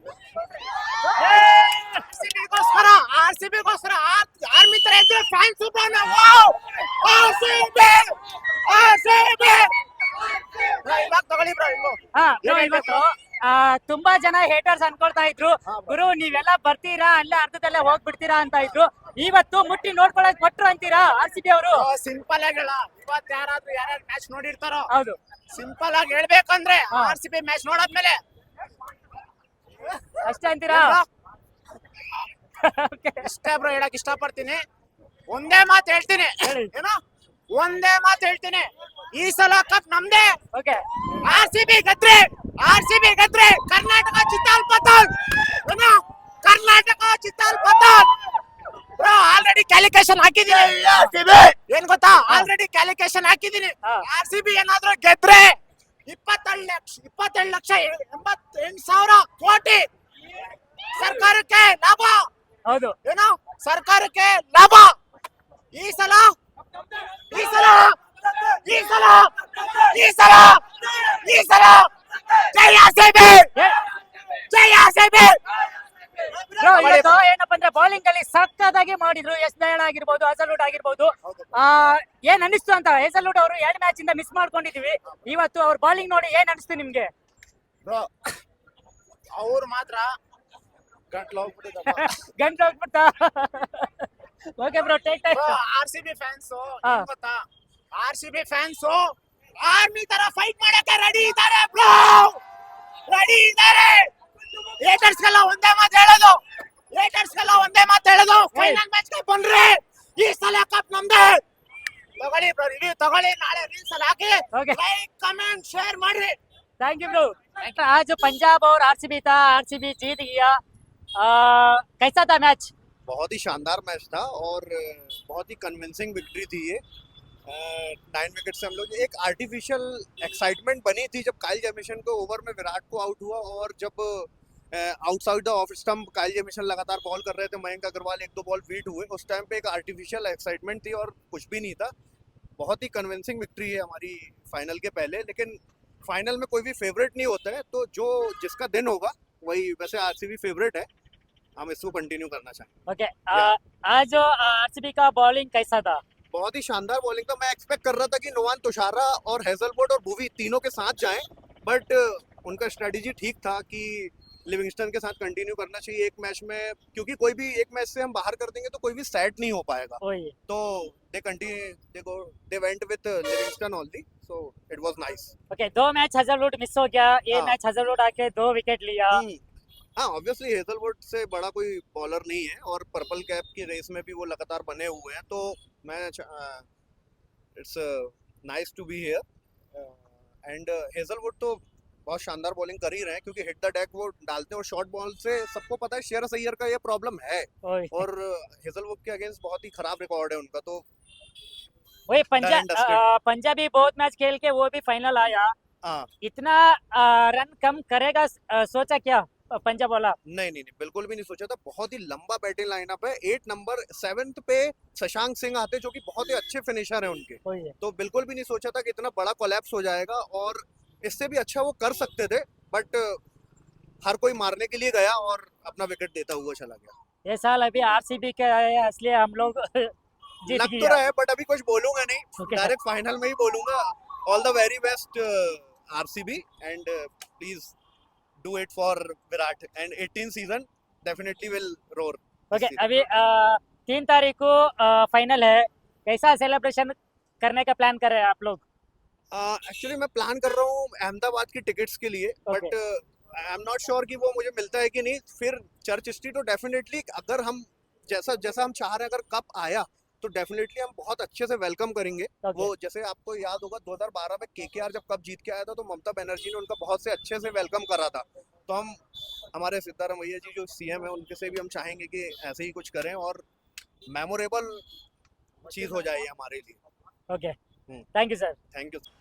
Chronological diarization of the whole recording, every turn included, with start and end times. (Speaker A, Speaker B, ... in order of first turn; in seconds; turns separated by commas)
Speaker A: 0.8-13.0, Speaker B: 1.1-1.9, Speaker B: 12.1-21.9, Speaker A: 21.7-24.9, Speaker B: 24.9-25.2, Speaker A: 25.5-28.2, Speaker B: 26.9-27.2, Speaker B: 30.2-31.0, Speaker A: 30.7-31.1, Speaker B: 32.6-33.3, Speaker A: 33.2-34.6, Speaker A: 35.3-37.0, Speaker B: 36.4-36.7, Speaker A: 37.5-40.4, Speaker B: 40.5-40.8, Speaker A: 41.2-48.1, Speaker A: 49.0-59.8, Speaker A: 60.9-62.3, Speaker B: 62.7-63.0, Speaker A: 63.0-64.9, Speaker A: 65.7-66.3, Speaker A: 67.3-73.5, Speaker A: 74.5-75.4, Speaker A: 76.4-77.1, Speaker B: 76.6-87.1, Speaker C: 81.2-81.5, Speaker A: 89.3-90.1, Speaker C: 91.1-91.9, Speaker B: 91.9-95.6, Speaker A: 95.3-97.4, Speaker A: 97.9-102.4, Speaker A: 103.1-104.1, Speaker A: 104.8-106.4, Speaker A: 106.9-111.4, Speaker B: 108.5-108.8, Speaker A: 112.2-116.4, Speaker B: 114.5-114.8, Speaker B: 116.8-120.6, Speaker B: 121.2-122.7, Speaker C: 123.1-126.8, Speaker C: 127.5-141.9, Speaker C: 142.6-150.9, Speaker C: 151.6-152.7, Speaker B: 152.9-156.0, Speaker C: 156.3-175.3, Speaker B: 170.0-170.3, Speaker B: 175.5-179.2, Speaker C: 179.1-179.4, Speaker C: 180.0-186.6, Speaker C: 187.6-200.8, Speaker B: 197.6-198.1, Speaker B: 202.1-205.5, Speaker C: 202.4-203.1, Speaker B: 206.2-210.2, Speaker C: 210.3-223.2, Speaker B: 217.4-217.7, Speaker C: 224.0-226.9, Speaker B: 227.2-229.9, Speaker B: 230.4-231.0, Speaker C: 230.5-237.7, Speaker B: 232.4-232.7, Speaker C: 238.4-243.0, Speaker B: 242.5-248.6, Speaker C: 249.3-269.0, Speaker B: 262.4-262.7, Speaker C: 269.5-273.4, Speaker C: 274.1-274.8, Speaker C: 275.7-276.8, Speaker B: 277.3-277.5, Speaker B: 278.1-278.6, Speaker C: 278.7-279.1